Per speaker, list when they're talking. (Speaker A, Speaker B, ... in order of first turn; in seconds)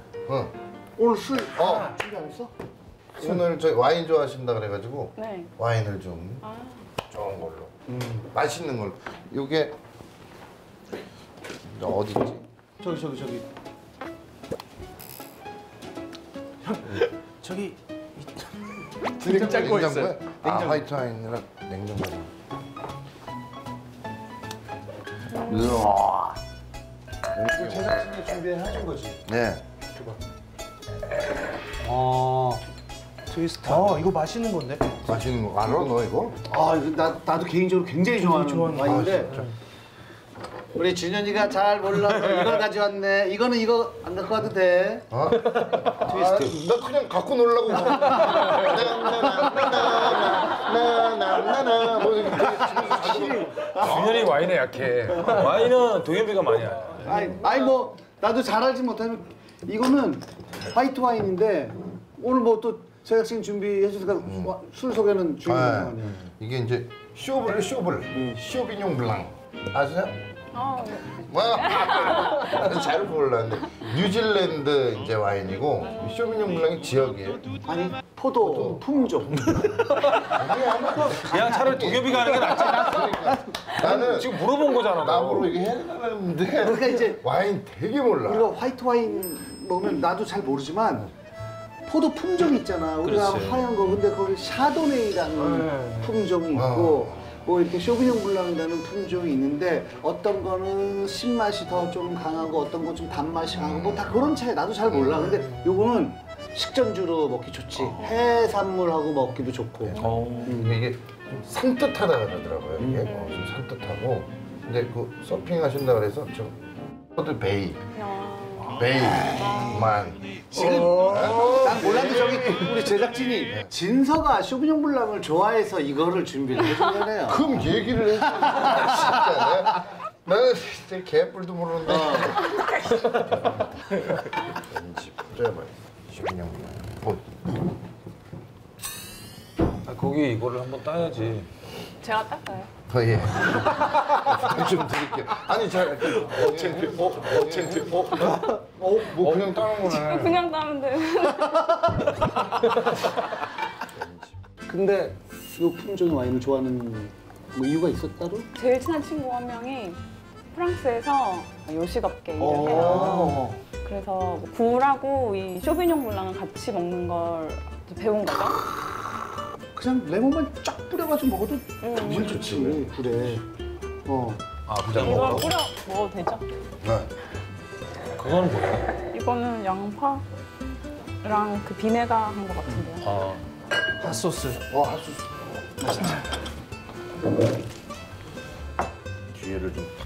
Speaker A: 0.3-0.5, 3.1-6.4, 7.1-9.8, 11.7-12.4, 19.2-22.3, 25.4-26.4, 27.3-28.0, 29.2-29.6, 35.0-36.4, 38.8-39.5, 45.1-54.3, 64.2-64.5, 65.4-70.2, 71.2-77.5, 78.4-78.8, 80.1-88.5, 96.5-97.3, 103.6-104.3, 104.8-105.7, 109.8-116.6, 117.2-117.8, 118.6-120.4, 120.9-122.2, 127.2-132.6, 134.5-137.4, 142.9-147.8, 148.8-150.4, 153.9-154.3, 162.7-163.5, 172.1-172.9, 174.9-175.5, 176.8-177.1, 184.6-185.4, 189.3-189.9
Speaker B: 1.0-2.5, 7.9-8.2, 12.8-13.4, 27.5-29.2, 31.8-32.6, 36.5-39.4, 40.7-45.0, 46.0-46.5, 52.3-54.3, 56.9-66.2, 68.1-68.4, 77.6-80.2, 81.3-83.5, 86.6-87.2, 88.2-91.1, 91.8-110.8, 112.8-113.1, 119.3-119.8, 120.5-127.4, 128.5-129.2, 131.8-132.4, 146.2-149.2, 154.7-158.5, 162.4-163.6, 169.7-173.4, 174.1-174.4, 185.8-186.2
Speaker C: 1.6-2.0, 16.6-20.8, 33.6-35.0, 38.2-39.5, 95.3-96.1, 120.6-121.7, 184.0-184.6
Speaker D: 5.2-5.5, 6.4-6.8, 25.4-25.8, 70.5-72.7, 110.0-110.5, 113.0-113.4, 117.9-119.9, 142.0-142.7, 149.8-152.0, 158.5-160.0, 160.5-163.3, 163.8-168.6, 171.8-172.4, 174.9-176.4, 179.1-180.2, 181.2-183.0
Speaker E: 33.3-34.1, 46.1-46.5, 53.7-57.4, 80.9-85.6, 93.0-93.7, 107.8-108.1, 109.9-110.6, 139.8-141.5, 146.1-148.5, 149.2-149.5, 174.7-175.5, 178.1-178.9, 183.0-183.4